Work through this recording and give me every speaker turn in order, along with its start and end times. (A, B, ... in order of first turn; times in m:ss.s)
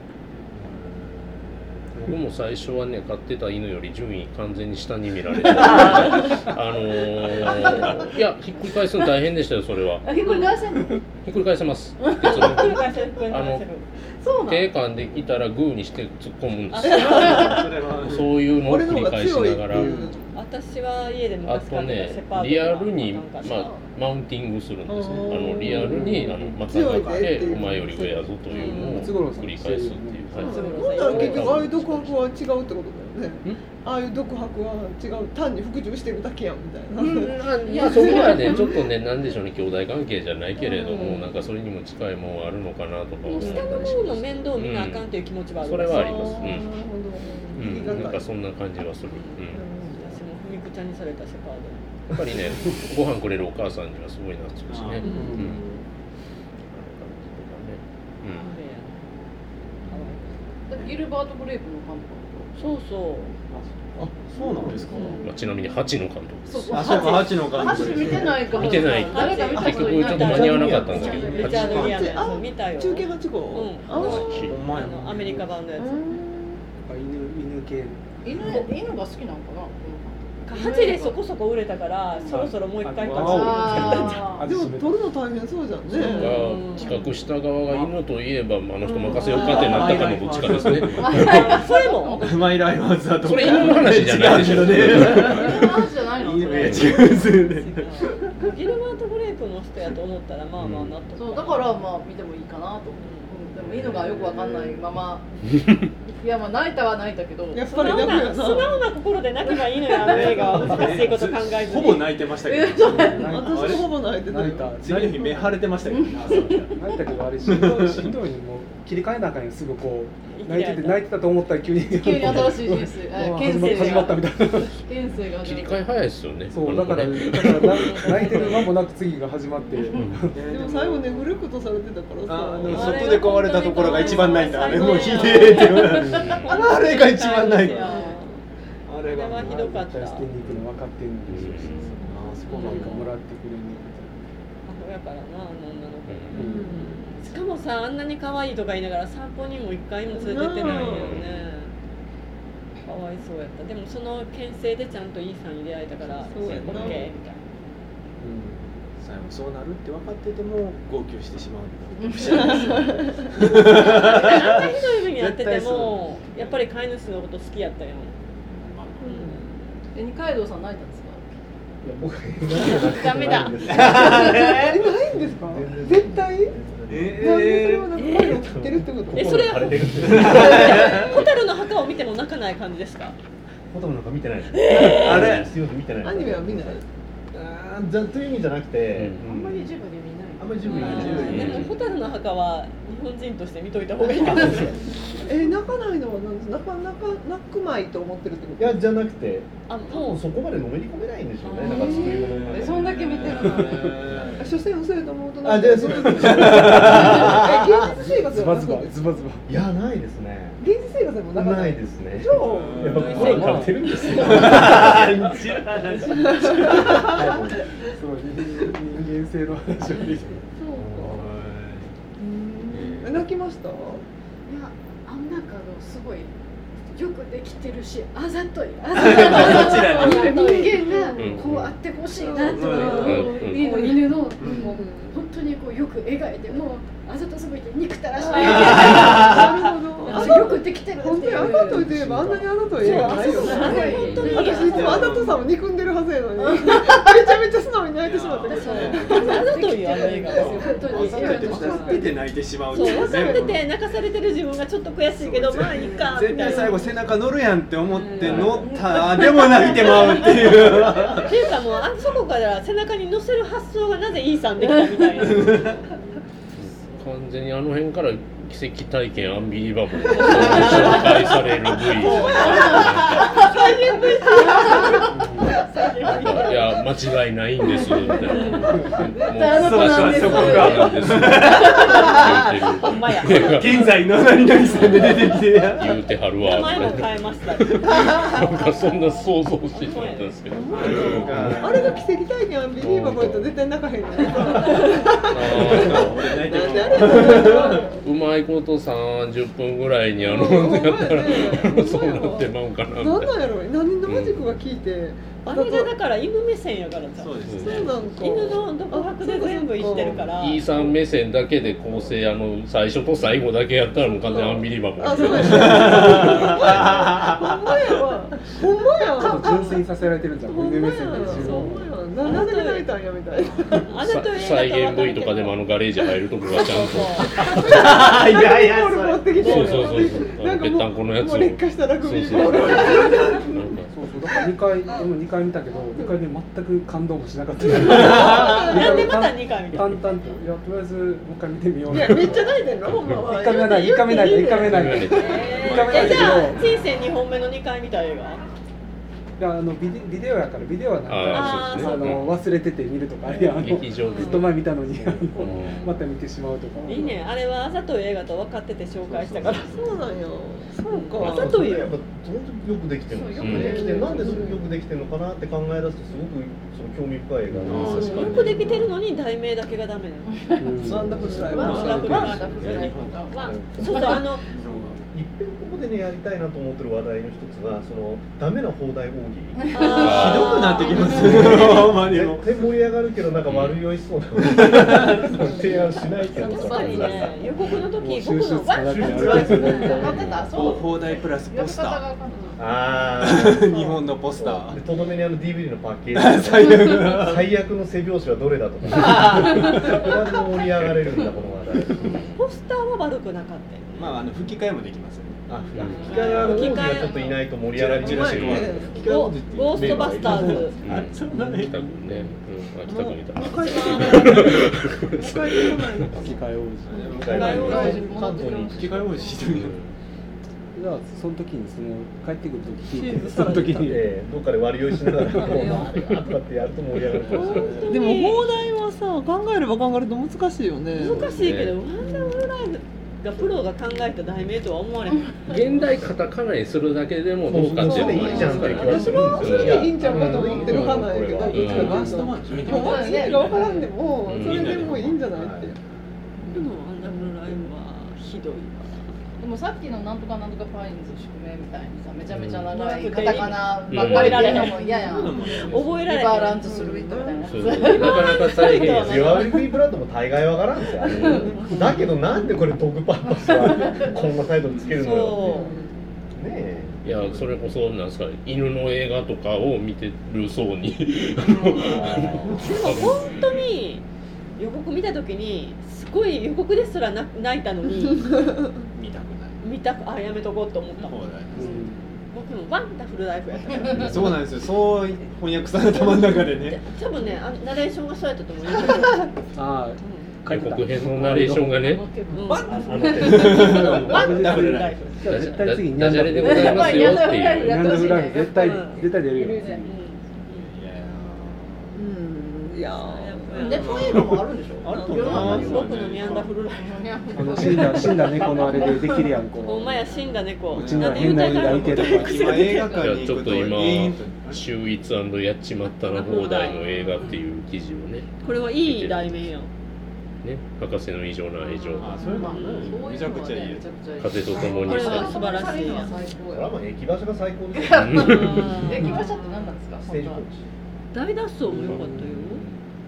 0:00.5-0:02.1 A
0:02.0-0:10.1 B
0:07.6-0:08.0 A
0:10.0-0:11.0 C
0:10.2-0:10.5 D
0:11.2-0:13.6 B
0:12.0-0:13.1 C
0:12.2-0:13.8 D
0:14.2-0:14.7 C
0:14.4-0:20.0 B
0:16.7-0:17.6 D
0:16.8-0:18.4 A
0:16.9-0:17.3 E
0:18.5-0:20.2 E
0:19.7-0:20.1 F
0:20.3-0:23.7 D
0:21.4-0:32.3 B
0:24.9-0:28.8 E
0:25.5-0:26.8 F
0:27.4-0:27.8 F
0:28.5-0:29.1 D
0:28.6-0:31.5 F
0:30.4-0:31.7 D
0:30.4-0:38.7 E
0:37.0-0:46.7 B
0:37.7-0:38.7 C
0:40.6-0:41.2 E
0:40.9-0:41.3 D
0:43.3-0:43.8 C
0:43.3-0:43.8 E
0:43.4-0:46.6 D
0:45.9-0:48.2 E
0:47.5-0:49.7 B
0:47.6-0:48.2 F
0:49.1-0:52.6 D
0:49.5-0:50.2 E
0:52.1-0:55.6 B
0:54.7-0:55.8 A
0:55.0-0:55.4 D
0:55.0-0:55.6 F
0:56.7-0:58.5 B
0:58.2-0:59.1 D
0:59.9-1:00.4 D
1:00.7-1:02.5 C
1:02.6-1:03.3 D
1:03.5-1:05.3 A
1:04.0-1:04.8 G
1:04.4-1:05.2 E
1:04.9-1:05.2 D
1:05.2-1:07.1 B
1:06.5-1:12.0 C
1:06.7-1:08.8 A
1:08.4-1:12.0 B
1:08.6-1:16.0 D
1:10.3-1:11.2 G
1:11.0-1:12.0 A
1:11.3-1:14.5 E
1:13.9-1:14.6 B
1:14.0-1:15.5 A
1:15.8-1:16.6 E
1:16.8-1:18.7 F
1:18.2-1:21.2 C
1:20.4-1:24.2 D
1:22.2-1:22.4 C
1:22.8-1:25.0 F
1:23.1-1:24.5 C
1:24.4-1:26.5 E
1:26.0-1:31.6 B
1:26.0-1:27.0 D
1:27.6-1:27.9 A
1:28.8-1:29.6 E
1:29.0-1:31.3 A
1:29.2-1:30.1 D
1:29.5-1:29.8 C
1:30.9-1:33.7 C
1:31.2-1:32.3 D
1:32.2-1:38.4 A
1:33.2-1:35.6 B
1:34.6-1:37.3 C
1:36.6-1:36.9 B
1:36.8-1:41.8 D
1:40.6-1:41.0 B
1:41.2-1:45.3 C
1:43.0-1:43.3 D
1:43.5-1:44.9 A
1:46.0-1:48.0 C
1:47.5-1:48.9 E
1:47.6-1:52.1 D
1:50.0-1:54.1 A
1:52.3-1:53.4 C
1:52.8-1:55.6 F
1:53.1-1:54.8 E
1:54.7-1:58.1 A
1:55.8-1:56.3 C
1:56.7-2:04.8 F
2:00.3-2:01.1 D
2:01.7-2:05.9 C
2:02.2-2:02.5 B
2:03.4-2:04.2 D
2:05.3-2:08.4 B
2:06.5-2:10.5 F
2:07.8-2:08.6 D
2:09.9-2:10.3 B
2:10.3-2:11.5 A
2:10.4-2:13.2 E
2:12.2-2:18.1 A
2:12.7-2:18.3 D
2:13.8-2:14.2 E
2:15.9-2:16.4 F
2:16.1-2:16.6 B
2:17.8-2:18.4 E
2:18.8-2:19.7 A
2:19.1-2:20.3 D
2:19.3-2:24.2 F
2:20.4-2:20.7 A
2:21.3-2:21.9 B
2:22.0-2:23.1 A
2:22.5-2:23.1 D
2:24.6-2:31.7 D
2:26.1-2:26.5 B
2:26.3-2:26.9 F
2:26.3-2:27.0 E
2:30.1-2:31.2 E
2:30.6-2:31.4 B
2:32.8-2:37.4 D
2:36.3-2:37.1 A
2:36.3-2:37.1 E
2:38.2-2:38.6 F
2:39.0-2:46.6 A
2:42.0-2:42.8 C
2:42.4-2:43.2 E
2:43.5-2:48.1 D
2:48.5-2:49.4 A
2:49.0-2:49.5 E
2:49.0-2:49.4 D
2:49.9-2:51.2 C
2:51.8-2:57.5 G
2:52.6-2:54.6 C
2:52.9-2:53.5 D
2:53.6-2:54.8 A
2:54.1-2:56.6 E
2:56.9-2:58.0 A
2:57.2-2:59.7 E
2:58.0-2:58.4 D
2:58.2-3:01.1 G
2:59.1-3:03.2 D
2:59.9-3:01.2 A
3:00.3-3:00.9 E
3:03.7-3:09.7 G
3:04.5-3:05.4 D
3:04.7-3:05.6 A
3:06.0-3:06.8 E
3:08.9-3:09.2 B
3:09.2-3:11.3 H
3:10.4-3:11.7 G
3:10.6-3:14.9 D
3:10.8-3:11.7 A
3:10.8-3:11.2 C
3:11.2-3:11.7 B
3:14.2-3:14.7 G
3:15.2-3:18.8 E
3:18.6-3:23.0 G
3:19.7-3:20.2 D
3:21.4-3:22.1 D
3:21.6-3:22.2 E
3:21.6-3:24.1 C
3:21.9-3:24.6 A
3:24.4-3:29.2 E
3:25.4-3:27.7 G
3:26.0-3:27.4 A
3:27.9-3:29.5 F
3:29.5-3:30.6 G
3:30.6-3:33.1 E
3:31.3-3:35.4 G
3:32.2-3:34.4 D
3:32.4-3:37.4 A
3:33.0-3:33.9 F
3:36.1-3:37.2 E
3:36.9-3:40.4 F
3:40.6-3:41.2 H
3:40.7-3:41.9 A
3:42.2-3:44.0 E
3:42.7-3:43.1 A
3:44.5-3:46.3 H
3:46.9-4:01.9 H
3:48.9-3:50.5 A
3:49.0-3:50.9 D
3:50.6-3:51.4 E
3:51.2-3:51.8 B
3:52.1-3:53.8 E
3:52.3-3:53.5 A
3:52.9-3:53.7 B
3:53.6-3:54.0 C
3:54.4-3:54.7 A
3:54.4-3:55.2 E
3:58.3-4:12.2 E
3:58.3-3:58.9 C
3:58.3-3:59.7 A
4:01.6-4:03.1 F
4:02.8-4:05.1 D
4:02.8-4:05.5 A
4:02.9-4:05.0 H
4:03.2-4:04.7 C
4:03.9-4:04.5 B
4:06.5-4:07.2 C
4:08.0-4:09.6 A
4:08.4-4:12.1 H
4:08.7-4:11.4 D
4:10.2-4:13.6 A
4:12.7-4:16.9 D
4:12.7-4:13.5 E
4:15.1-4:21.4 A
4:16.4-4:16.7 H
4:17.9-4:18.4 H
4:18.3-4:25.8 D
4:25.2-4:25.8 A
4:26.6-4:33.6 B
4:30.1-4:36.9 D
4:30.2-4:31.0 E
4:30.5-4:30.9 C
4:32.4-4:33.3 C
4:34.3-4:34.8 E
4:34.5-4:35.0 C
4:35.1-4:35.6 F
4:36.0-4:44.0 B
4:37.6-4:41.1 C
4:38.3-4:38.6 D
4:38.7-4:39.1 F
4:39.4-4:42.7 A
4:41.4-4:43.8 D
4:43.2-4:46.0 A
4:44.6-4:51.9 B
4:44.7-4:45.2 D
4:46.4-4:48.6 D
4:49.7-4:51.3 D
4:50.5-4:58.0 E
4:50.7-4:52.0 A
4:52.8-4:53.5 B
4:54.6-4:58.0 A
4:55.2-4:56.5 B
4:57.2-5:03.5 B
5:00.2-5:05.9 E
5:04.0-5:04.6 B
5:05.4-5:10.6 D
5:07.2-5:08.1 A
5:07.6-5:10.3 E
5:10.0-5:16.8 B
5:14.0-5:19.8 E
5:15.4-5:17.6 A
5:19.1-5:21.9 F
5:20.4-5:23.9 E
5:21.2-5:22.9 D
5:23.8-5:25.6 D
5:24.0-5:27.9 B
5:26.5-5:27.4 D
5:27.4-5:29.8 A
5:27.4-5:33.7 E
5:29.4-5:33.9 B
5:29.4-5:30.0 D
5:33.8-5:42.6 F
5:37.8-5:39.2 E
5:37.9-5:40.0 D
5:37.9-5:38.7 A
5:41.9-5:45.5 E
5:43.2-5:46.7 F
5:43.8-5:48.4 D
5:44.6-5:45.9 B
5:45.5-5:46.5 A
5:49.4-5:57.2 F
5:51.1-5:52.4 B
5:51.3-5:52.2 D
5:53.4-5:55.9 B
5:54.1-5:54.5 D
5:56.8-5:59.8 D
5:59.0-5:59.9 A
5:59.5-6:01.7 E
6:00.9-6:01.9 D
6:01.2-6:08.7 G
6:03.1-6:04.6 C
6:03.4-6:03.8 B
6:03.5-6:04.6 E
6:07.5-6:07.9 F
6:07.6-6:08.8 A
6:07.7-6:08.5 E
6:07.7-6:10.5 D
6:10.3-6:14.3 C
6:10.6-6:12.4 F
6:10.8-6:12.2 E
6:11.2-6:13.6 A
6:11.3-6:14.4 D
6:13.4-6:14.2 G
6:14.4-6:15.0 A
6:14.7-6:15.0 F
6:15.1-6:19.7 G
6:19.6-6:20.9 C
6:19.7-6:21.9 D
6:19.8-6:20.6 B
6:19.9-6:22.4 A
6:21.1-6:27.7 G
6:23.5-6:23.8 B
6:24.4-6:25.4 A
6:25.6-6:27.5 C
6:26.4-6:29.5 D
6:28.0-6:30.2 F
6:28.8-6:30.2 G
6:29.1-6:33.0 C
6:29.9-6:32.0 A
6:30.0-6:30.5 B
6:32.6-6:42.1 G
6:33.2-6:34.8 A
6:36.1-6:37.5 A
6:38.9-6:40.1 A
6:40.8-6:41.3 A
6:42.3-6:44.2 D
6:43.9-6:46.9 A
6:45.5-6:50.8 G
6:45.7-6:46.1 B
6:45.9-6:47.4 D
6:47.7-6:52.0 A
6:48.0-6:49.1 E
6:48.3-6:48.7 B
6:49.0-6:50.8 D
6:50.8-6:56.0 B
6:51.4-6:51.6 F
6:52.9-6:58.2 E
6:53.8-6:54.1 D
6:56.2-6:57.0 F
6:56.9-6:59.8 A
6:57.1-6:59.1 G
6:57.1-6:59.4 C
6:57.3-6:58.1 D
6:59.5-6:59.9 B
7:00.7-7:04.1 F
7:02.9-7:03.9 E
7:03.7-7:07.8 G
7:05.0-7:05.4 F
7:05.4-7:05.9 D
7:07.3-7:08.5 D
7:07.3-7:07.9 A
7:07.8-7:11.3 E
7:10.9-7:15.6 D
7:11.1-7:11.8 B
7:12.0-7:12.4 E
7:15.5-7:22.2 B
7:17.4-7:21.7 G
7:17.8-7:25.8 E
7:18.3-7:18.8 D
7:21.4-7:23.7 A
7:21.6-7:22.1 F
7:22.7-7:23.9 C
7:24.2-7:24.9 B
7:24.3-7:25.2 A
7:25.3-7:25.7 G
7:26.5-7:29.1 D
7:26.5-7:27.6 E
7:29.4-7:38.8 C
7:32.3-7:32.8 B
7:32.7-7:35.0 D
7:33.9-7:34.8 B
7:34.8-7:35.7 E
7:34.8-7:36.0 A
7:35.5-7:36.9 D
7:36.5-7:37.7 E
7:37.4-7:39.5 B
7:37.7-7:39.7 D
7:38.8-7:45.7 G
7:41.0-7:41.5 B
7:41.2-7:41.8 D
7:43.5-7:44.1 C
7:44.8-7:45.7 D
7:45.4-7:45.9 E
7:46.3-7:47.0 G
7:47.0-7:53.2 B
7:47.0-7:47.5 A
7:51.8-7:52.6 G
7:52.0-7:53.1 A
7:52.5-7:54.0 D
7:54.6-7:58.4 D
7:58.9-7:59.6 A
7:59.6-8:04.4 D
8:01.0-8:01.8 A
8:01.5-8:02.0 F
8:04.0-8:06.8 A
8:05.9-8:09.3 D
8:09.5-8:12.0 F
8:10.0-8:10.3 D
8:10.4-8:12.0 B
8:11.8-8:12.9 H
8:12.3-8:15.7 D
8:12.4-8:15.2 A
8:12.9-8:13.4 G
8:12.9-8:13.4 C
8:13.6-8:20.0 F
8:15.2-8:18.0 B
8:16.3-8:19.9 C
8:18.5-8:19.0 D
8:19.8-8:20.7 D
8:20.5-8:22.0 A
8:21.9-8:24.0 E
8:23.0-8:24.2 D
8:23.5-8:29.4 C
8:23.5-8:26.5 A
8:24.2-8:24.9 G
8:24.9-8:25.8 E
8:25.1-8:27.7 D
8:27.3-8:30.1 F
8:29.6-8:33.1 D
8:30.7-8:32.7 F
8:30.7-8:34.7 A
8:32.9-8:39.5 B
8:35.8-8:37.3 D
8:38.4-8:39.7 D
8:40.4-8:42.3 B
8:41.8-8:43.0 D
8:42.0-8:43.9 A
8:42.0-8:46.8 C
8:44.2-8:45.6 B
8:44.8-8:46.2 D
8:46.5-8:48.4 G
8:47.7-8:50.4 C
8:47.9-8:48.8 B
8:48.2-8:49.2 D
8:49.1-8:49.6 H
8:50.0-8:50.6 G
8:51.1-8:52.6 D
8:51.7-8:52.4 F